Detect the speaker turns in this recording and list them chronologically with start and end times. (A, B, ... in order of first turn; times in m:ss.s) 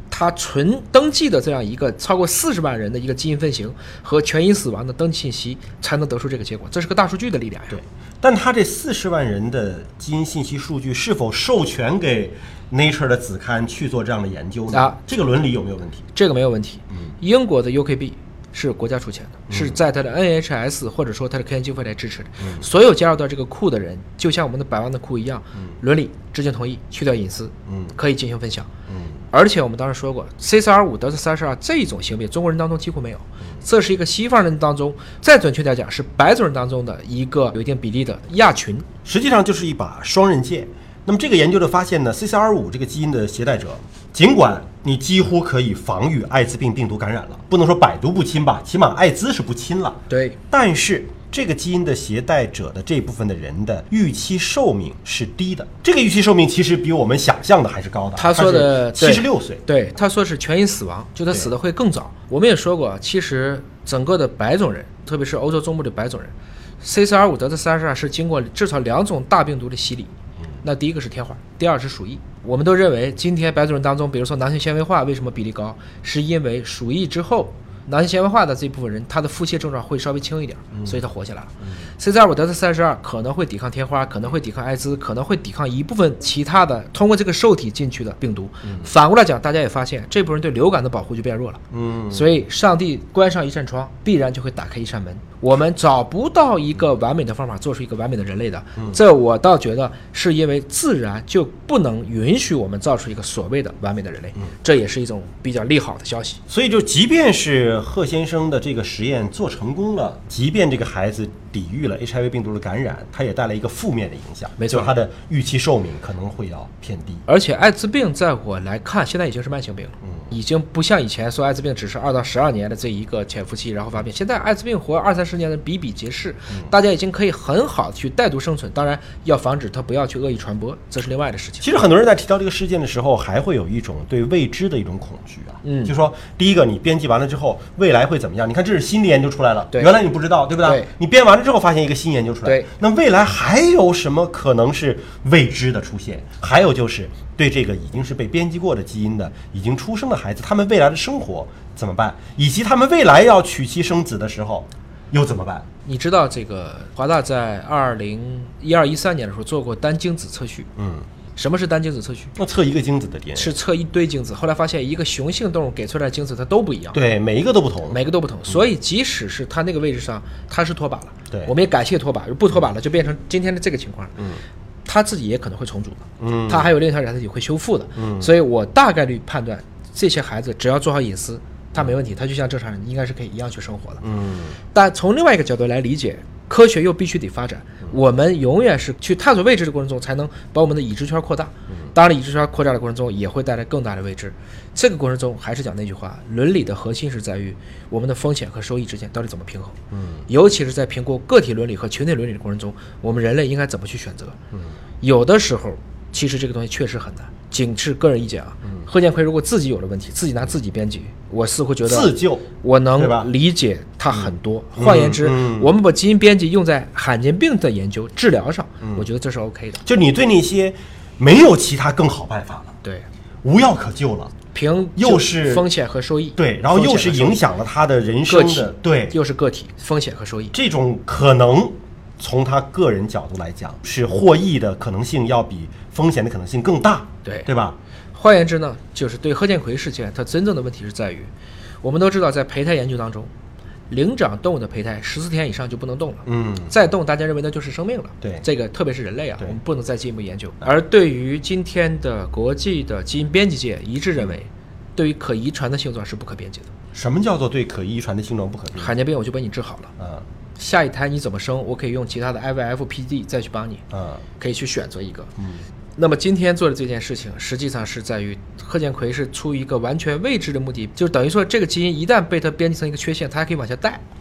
0:00.1-0:07.8 A
0:07.7-0:16.0 B
0:14.7-0:15.0 A
0:16.1-0:28.7 A
0:19.5-0:19.8 B
0:22.4-0:22.6 B
0:27.7-0:27.9 B
0:28.9-0:29.2 B
0:29.3-0:38.8 A
0:39.0-0:59.6 B
0:50.1-0:50.4 A
0:58.2-1:46.4 A
1:20.7-1:21.0 B
1:28.6-1:28.9 B
1:31.7-1:32.3 B
1:46.5-1:57.2 B
1:54.6-1:54.9 A
1:57.3-2:11.6 A
2:00.0-2:00.3 B
2:11.6-2:35.6 B
2:15.6-2:15.9 A
2:19.7-2:20.0 A
2:20.6-2:20.9 A
2:35.8-2:40.7 A
2:40.8-2:41.1 B
2:41.4-2:42.3 A
2:42.4-2:43.5 B
2:43.4-2:47.0 A
2:46.9-2:48.5 B
2:47.9-2:54.2 A
2:54.2-2:54.4 B
2:54.8-3:04.0 A
2:56.2-2:56.7 B
2:58.0-2:58.3 B
3:04.0-3:04.6 B
3:04.7-3:19.8 A
3:19.9-3:20.3 B
3:20.3-3:24.4 A
3:25.0-3:39.8 A
3:31.8-3:33.3 B
3:34.1-3:35.7 B
3:38.8-3:39.1 B
3:39.8-3:42.7 B
3:43.4-3:44.3 B
3:44.5-3:47.4 A
3:45.0-3:45.6 B
3:46.4-3:49.2 B
3:48.3-3:50.5 A
3:50.5-3:57.8 B
3:58.1-4:01.3 A
4:01.8-4:03.3 A
4:03.9-4:16.7 A
4:06.2-4:06.7 B
4:16.9-4:19.0 B
4:18.8-4:19.9 A
4:20.0-4:20.2 B
4:20.6-4:23.8 A
4:23.9-4:24.2 B
4:24.4-4:25.3 A
4:25.4-4:25.6 B
4:26.0-4:34.0 A